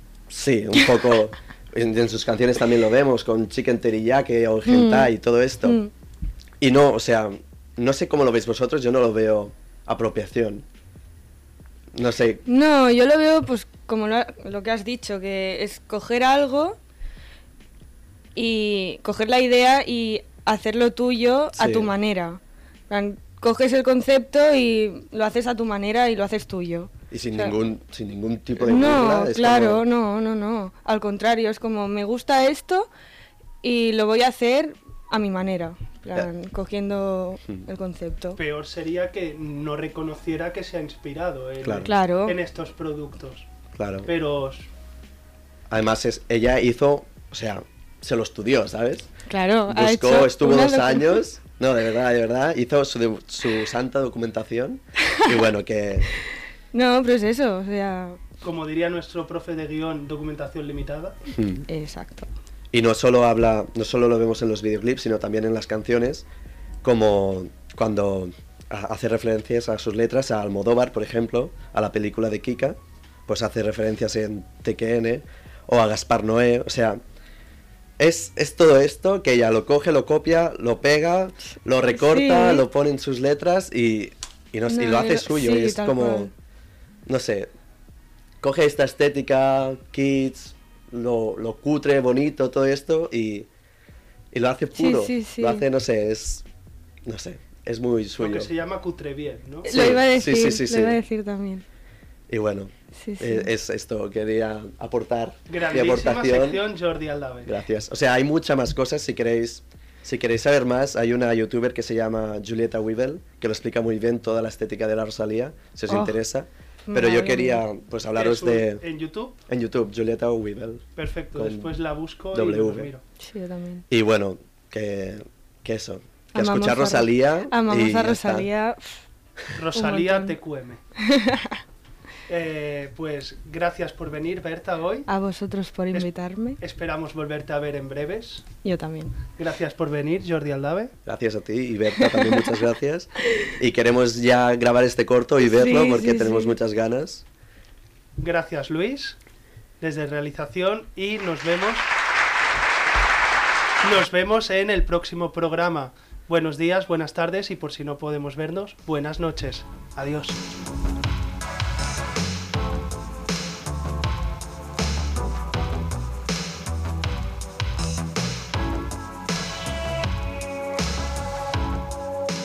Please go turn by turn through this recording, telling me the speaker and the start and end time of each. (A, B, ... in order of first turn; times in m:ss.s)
0:00.3-0:05.8 A
0:04.7-0:05.1 B
0:05.6-0:05.9 B
0:06.6-0:10.6 A
0:11.9-0:12.4 A
0:12.5-0:16.8 B
0:18.4-0:27.6 B
0:21.6-0:21.9 A
0:27.1-0:29.8 A
0:28.6-0:32.9 B
0:33.6-0:38.4 B
0:38.4-0:43.5 C
0:41.6-0:41.9 A
0:41.8-0:42.4 B
0:43.7-0:44.1 A
0:44.1-0:44.7 C
0:45.7-0:49.1 A
0:49.3-0:51.2 B
0:49.7-0:56.1 A
0:56.7-0:58.2 B
0:58.4-1:01.2 C
1:01.3-1:01.7 A
1:01.7-1:02.3 B
1:02.7-1:06.3 A
1:06.8-1:17.0 A
1:18.0-1:26.3 A
1:21.9-1:22.6 B
1:24.7-1:26.3 B
1:27.1-1:27.5 A
1:28.4-1:33.5 A
1:34.3-1:36.5 A
1:34.7-1:35.6 B
1:37.0-1:38.5 A
1:38.2-1:39.7 C
1:39.7-1:41.6 B
1:39.7-1:41.0 A
1:42.3-1:46.6 A
1:43.0-1:43.5 B
1:45.5-1:47.5 C
1:47.4-1:58.8 A
1:55.9-1:56.2 B
1:56.9-1:57.6 B
1:58.2-1:59.4 C
1:59.5-2:00.8 A
2:01.0-2:03.0 C
2:01.4-2:01.7 A
2:02.3-2:02.9 A
2:03.2-2:03.8 B
2:03.9-2:08.5 A
2:06.3-2:09.0 B
2:09.6-2:10.8 C
2:09.7-2:10.4 B
2:11.0-2:11.6 B
2:12.3-2:15.1 C
2:15.1-2:16.6 B
2:16.6-2:18.5 C
2:18.6-2:19.2 B
2:19.4-2:20.9 C
2:21.0-2:27.2 A
2:22.0-2:22.5 B
2:25.5-2:26.6 B
2:28.2-2:29.2 C
2:29.8-2:31.9 C
2:33.8-2:40.4 C